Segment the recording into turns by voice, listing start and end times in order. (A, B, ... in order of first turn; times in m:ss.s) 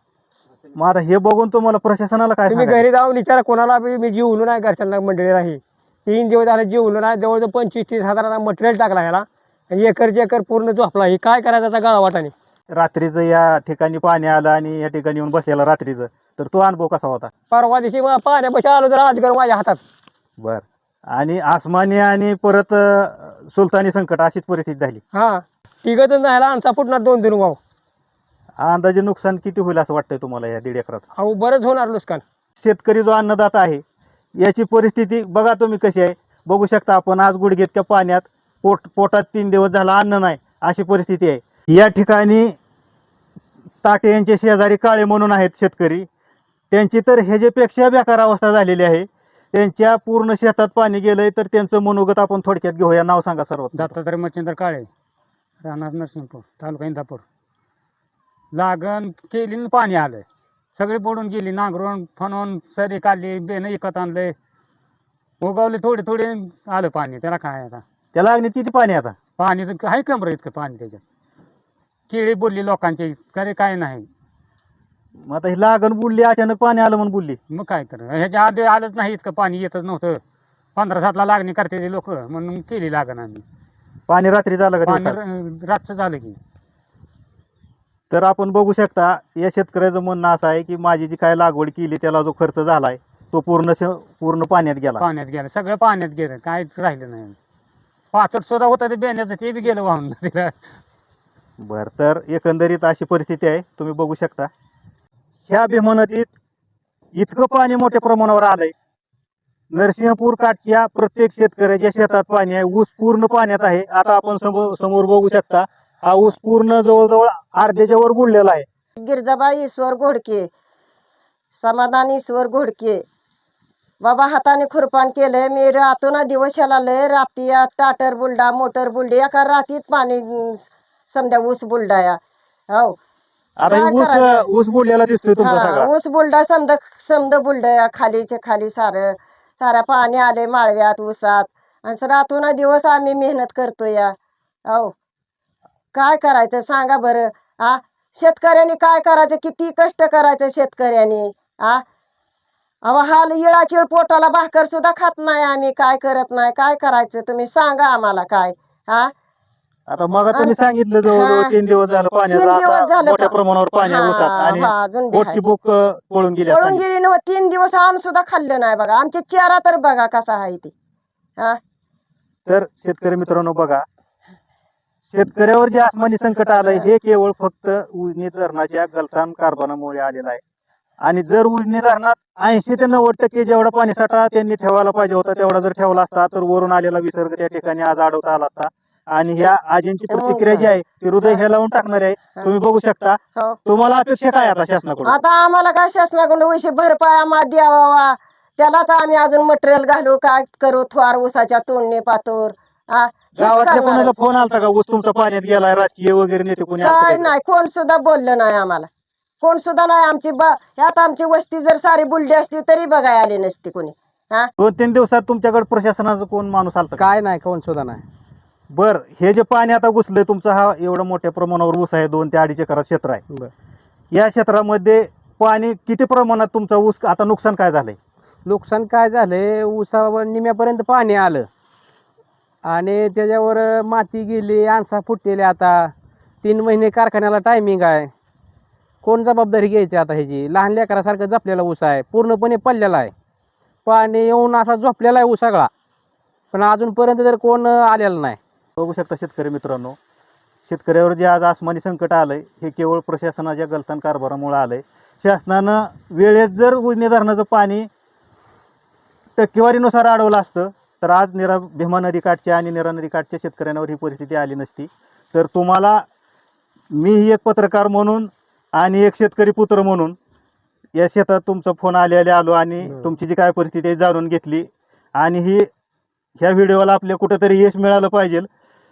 0:00.8-0:02.8 A
0:02.5-0:12.3 B
0:12.7-0:17.3 A
0:17.5-0:19.8 B
0:20.4-0:25.0 A
0:25.1-0:27.6 B
0:28.6-0:31.0 A
0:31.2-0:32.2 B
0:32.6-0:33.8 A
0:34.4-0:42.6 A
0:43.8-0:46.1 A
0:46.7-0:53.9 A
0:53.7-0:54.9 C
0:55.6-0:57.2 C
0:58.5-1:00.2 C
1:00.8-1:04.3 C
1:05.4-1:07.8 C
1:08.1-1:09.2 A
1:09.4-1:11.0 C
1:12.1-1:14.0 C
1:15.2-1:17.4 A
1:17.5-1:20.2 C
1:20.8-1:23.4 C
1:24.1-1:25.2 A
1:24.8-1:26.4 C
1:28.1-1:35.0 A
1:35.0-1:37.3 C
1:38.1-1:40.5 C
1:41.6-1:44.5 A
1:45.5-1:46.3 A
1:47.1-1:48.7 A
1:49.7-1:58.6 A
1:59.0-2:00.5 D
2:01.6-2:03.0 D
2:04.0-2:12.2 D
2:12.7-2:13.0 D
2:13.6-2:15.9 A
2:13.7-2:14.4 D
2:15.4-2:24.1 D
2:24.6-2:24.9 D
2:25.9-2:31.8 D
2:32.8-2:39.1 D
2:39.9-2:46.8 A
2:41.1-2:41.5 D
2:42.3-2:45.4 D
2:46.5-2:50.7 D
2:52.5-2:53.8 A
2:55.1-3:00.4 A
3:01.0-3:15.2 A
3:10.1-3:10.7 D
3:15.0-3:24.1 D
3:23.4-3:27.3 A
3:26.8-3:28.9 D
3:29.4-3:34.5 D
3:34.6-3:37.0 A
3:37.0-3:38.0 E
3:38.7-3:43.2 A
3:44.1-3:48.0 A
3:48.4-3:51.5 E
3:52.6-3:55.9 E
3:56.4-3:58.1 E
3:59.0-4:03.1 E
4:03.8-4:05.7 E
4:06.5-4:08.4 E
4:08.8-4:10.0 A
4:10.6-4:17.9 A
4:19.4-4:26.0 A
4:26.9-4:30.2 A
4:30.9-4:35.7 A
4:36.4-4:38.5 A